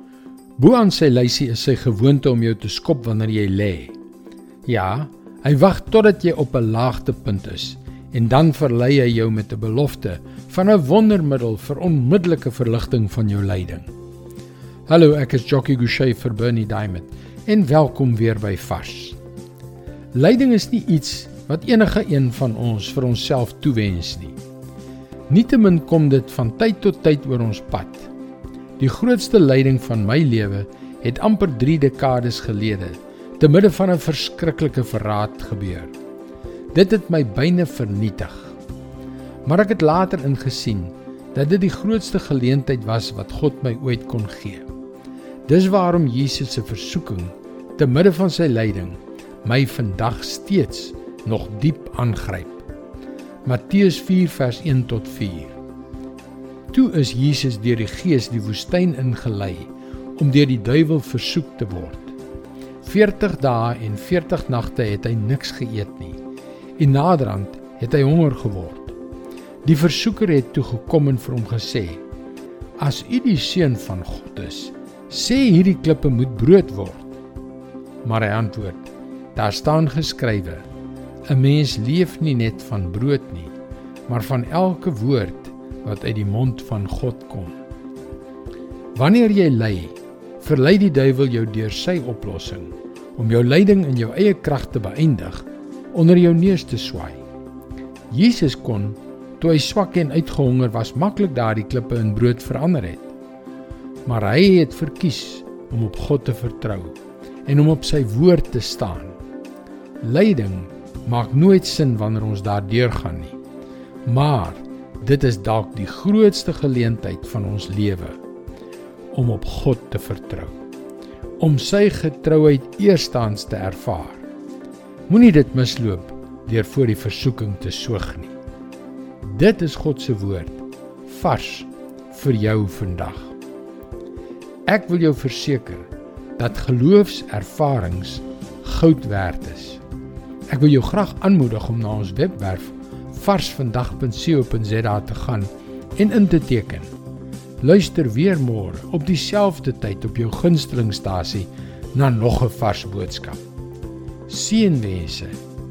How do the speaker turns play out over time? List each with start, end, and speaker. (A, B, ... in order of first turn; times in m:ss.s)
0:00.6-0:04.0 A
0:04.7-0:13.9 A
0:14.9-0:19.2 A
0:20.1-0:24.4 A
0:25.3-0:28.1 A
0:28.8-0:35.9 A
0:36.7-0:38.6 A
0:39.5-0:44.6 A
0:45.5-0:52.6 A
0:53.4-0:55.6 A
0:56.7-1:02.2 A
1:02.8-1:06.2 A
1:06.8-1:09.0 A
1:09.6-1:12.0 A
1:12.8-1:17.1 A
1:18.0-1:20.7 A
1:21.3-1:23.5 A
1:24.1-1:27.6 A
1:29.0-1:37.2 A
1:38.1-1:43.1 A
1:44.1-1:49.2 A
1:50.0-1:53.4 A
1:54.1-1:58.2 A
1:59.1-2:00.6 A
2:01.4-2:04.2 A
2:05.1-2:08.4 A
2:09.2-2:13.3 A
2:14.7-2:19.8 A
2:20.5-2:26.9 A
2:27.6-2:33.4 A
2:34.3-2:35.4 A